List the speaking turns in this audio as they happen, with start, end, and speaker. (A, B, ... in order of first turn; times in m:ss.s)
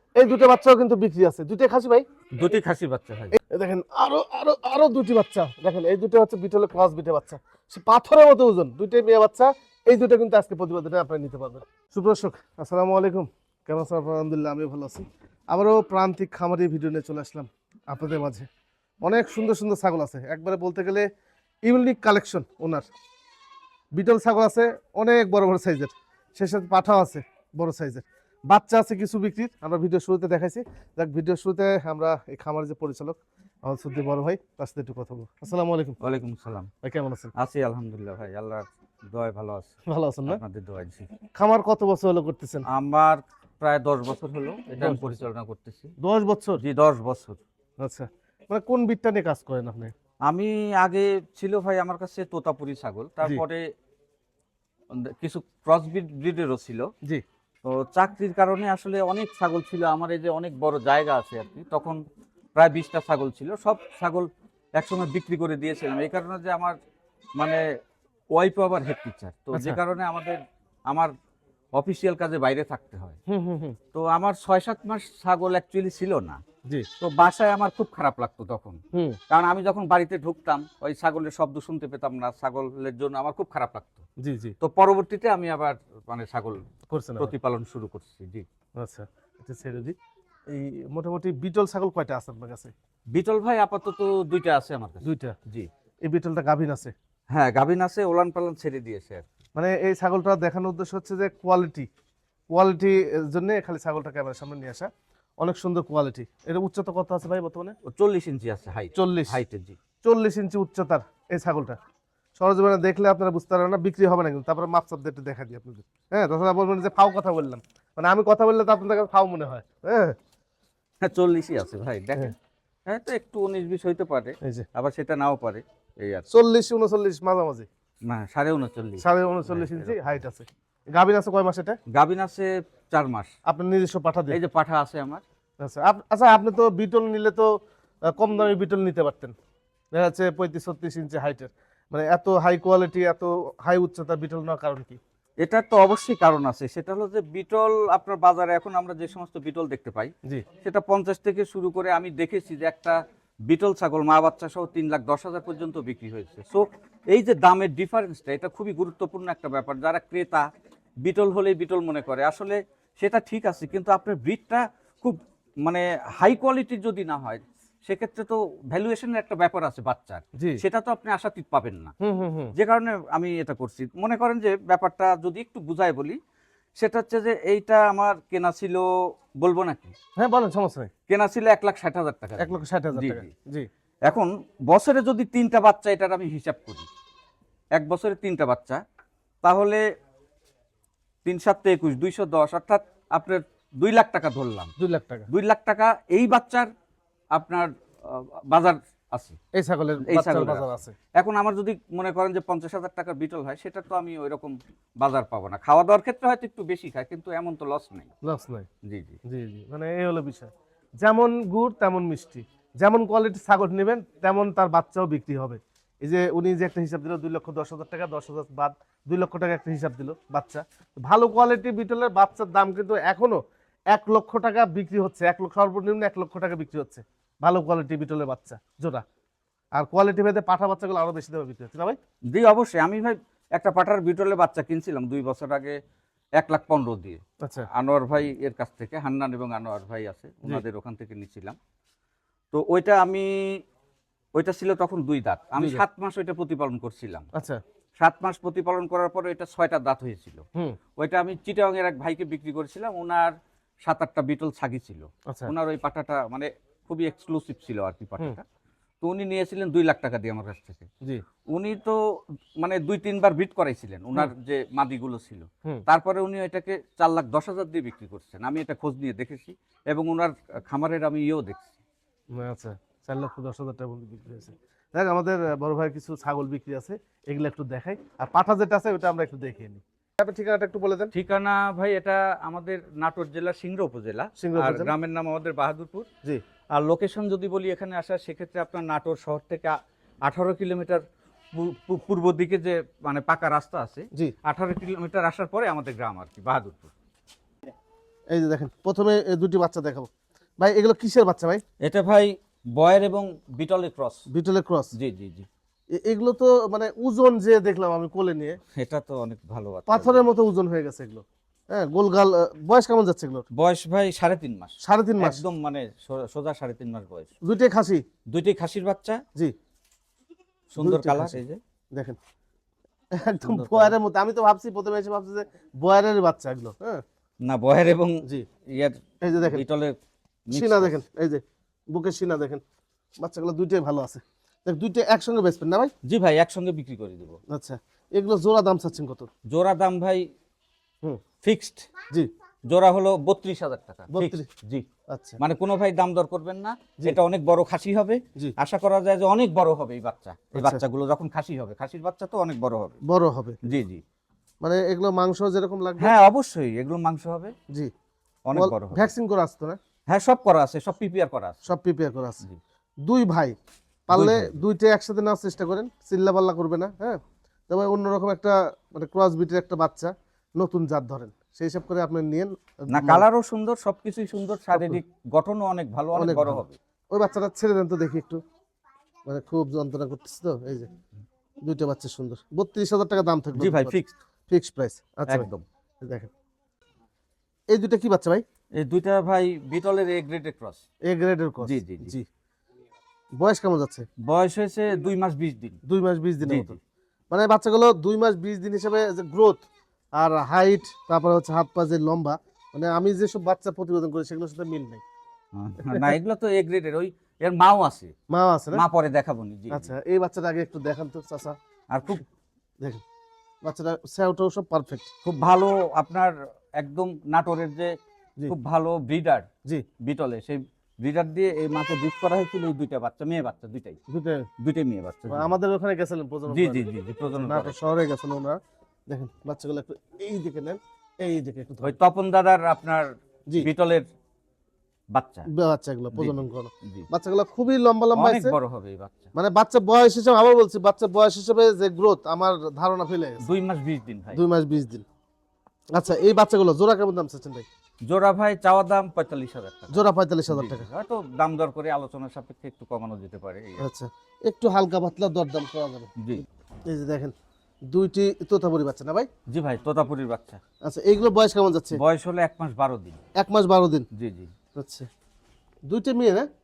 0:00.2-0:02.1 A
0:02.3-0:03.4 B
0:03.5-0:18.5 A
0:19.0-0:21.1 A
0:21.6-0:22.9 A
0:24.0-0:36.0 A
0:36.0-0:36.7 B
0:36.8-0:37.3 A
0:37.4-0:39.7 B
0:39.9-0:40.4 A
0:40.3-0:41.1 B
0:41.4-0:42.7 A
0:42.7-0:45.9 B
0:44.8-0:45.2 A
0:46.0-0:46.6 A
0:46.6-0:47.4 B
0:47.8-0:49.9 A
0:50.3-0:53.6 B
0:54.9-0:56.9 B
0:57.6-1:02.0 B
1:02.6-1:06.8 B
1:07.4-1:07.6 B
1:08.3-1:11.1 B
1:09.5-1:09.8 A
1:11.7-1:13.2 B
1:13.3-1:13.8 A
1:13.9-1:16.4 B
1:17.0-1:18.8 B
1:18.9-1:19.2 A
1:19.3-1:24.0 B
1:24.2-1:24.6 A
1:24.6-1:26.6 B
1:26.9-1:27.3 A
1:27.2-1:28.5 B
1:28.8-1:30.0 A
1:30.5-1:32.7 A
1:33.1-1:35.7 B
1:35.0-1:35.4 A
1:36.0-1:36.9 A
1:37.3-1:39.2 B
1:39.6-1:41.9 A
1:42.5-1:44.9 A
1:45.4-1:47.8 A
1:47.9-1:49.8 B
1:49.0-1:49.4 A
1:50.0-1:51.8 A
1:52.4-2:00.2 A
2:01.0-2:02.4 B
2:02.9-2:06.3 B
2:06.3-2:07.7 A
2:08.0-2:10.0 B
2:09.0-2:11.8 A
2:11.9-2:13.3 B
2:13.5-2:14.4 A
2:14.3-2:15.2 B
2:15.6-2:17.5 A
2:18.1-2:19.3 A
2:20.0-2:25.0 A
2:25.4-2:40.5 B
2:41.0-2:51.9 B
2:52.0-2:52.5 A
2:52.6-2:56.2 B
2:56.8-2:58.9 B
2:59.4-3:00.0 B
3:00.2-3:00.9 A
3:01.1-3:03.3 B
3:02.4-3:03.7 A
3:04.0-3:06.9 B
3:07.8-3:08.8 B
3:09.4-3:09.8 B
3:11.2-3:14.7 B
3:14.8-3:15.3 A
3:15.3-3:16.7 B
3:17.3-3:19.4 B
3:19.6-3:21.0 A
3:20.0-3:28.1 B
3:28.2-3:28.7 A
3:28.8-3:29.2 B
3:29.3-3:43.4 A
3:43.9-3:49.0 A
3:49.8-3:52.0 A
3:52.3-3:55.8 B
3:56.4-3:57.2 B
3:57.4-3:57.7 A
3:57.7-4:01.6 B
4:02.5-4:03.6 B
4:04.4-4:07.3 B
4:05.6-4:05.8 A
4:08.0-4:10.4 B
4:11.0-4:13.4 B
4:13.9-4:18.4 B
4:19.0-4:20.9 B
4:21.5-4:22.0 B
4:22.6-4:31.7 B
4:32.4-4:41.1 A
4:41.1-4:46.1 B
4:44.4-4:44.9 A
4:46.7-4:51.0 B
4:51.5-4:56.9 B
4:58.3-5:01.6 A
5:01.8-5:04.2 B
5:04.3-5:04.9 A
5:04.9-5:05.5 B
5:05.9-5:08.6 A
5:08.8-5:10.3 B
5:09.9-5:13.5 A
5:13.5-5:17.3 B
5:14.8-5:15.4 A
5:17.4-5:18.0 A
5:18.3-5:19.2 B
5:20.7-5:21.6 B
5:20.8-5:21.4 A
5:23.2-5:27.0 A
5:23.4-5:24.0 B
5:27.4-5:31.0 B
5:29.2-5:29.6 A
5:30.5-5:31.4 A
5:31.9-5:32.6 A
5:33.2-5:35.9 A
5:36.0-5:37.4 B
5:37.5-5:39.3 A
5:39.5-5:40.3 B
5:41.4-5:41.9 B
5:42.7-5:44.9 B
5:44.1-5:44.5 A
5:45.1-5:45.4 A
5:45.4-5:53.0 B
5:50.5-5:50.8 A
5:53.0-5:53.6 A
5:53.6-5:54.0 B
5:54.6-5:56.2 A
5:56.0-5:57.5 B
5:58.5-5:59.1 B
5:58.6-5:59.8 A
6:00.1-6:01.6 B
6:01.6-6:02.4 A
6:03.1-6:03.6 A
6:04.1-6:13.3 A
6:04.1-6:04.5 B
6:12.9-6:16.8 B
6:14.7-6:15.0 A
6:16.2-6:18.4 A
6:19.3-6:20.9 A
6:21.6-6:24.0 A
6:23.6-6:24.1 B
6:24.5-6:25.5 A
6:25.3-6:25.6 B
6:26.0-6:26.3 A
6:27.7-6:28.4 A
6:28.8-6:30.8 B
6:31.1-6:32.3 A
6:31.6-6:32.2 B
6:33.4-6:34.1 A
6:34.2-6:35.8 B
6:35.9-6:36.8 A
6:36.4-6:36.8 B
6:37.3-6:39.6 A
6:40.2-6:45.0 A
6:45.5-6:48.1 B
6:45.8-6:46.1 A
6:48.3-6:48.8 A
6:48.7-6:49.9 B
6:49.7-6:51.6 A
6:51.9-6:52.2 B
6:53.6-6:55.1 A
6:55.2-6:57.9 B
6:58.5-6:59.5 B
7:00.0-7:04.0 B
7:04.1-7:04.5 A
7:04.6-7:05.5 B
7:05.3-7:06.9 A
7:06.5-7:07.8 B
7:07.4-7:12.0 A
7:11.8-7:14.1 B
7:15.1-7:15.5 B
7:15.5-7:18.6 A
7:16.1-7:17.1 B
7:18.2-7:19.3 B
7:19.3-7:23.4 A
7:23.4-7:24.4 B
7:24.3-7:25.0 A
7:26.0-7:27.6 A
7:28.1-7:33.8 B
7:29.9-7:30.9 A
7:33.8-7:37.3 A
7:37.9-7:39.3 A
7:39.5-7:40.6 B
7:40.8-7:42.0 A
7:41.9-7:43.2 B
7:43.4-7:44.1 A
7:44.1-7:44.5 B
7:44.8-7:45.1 A
7:45.9-7:46.5 A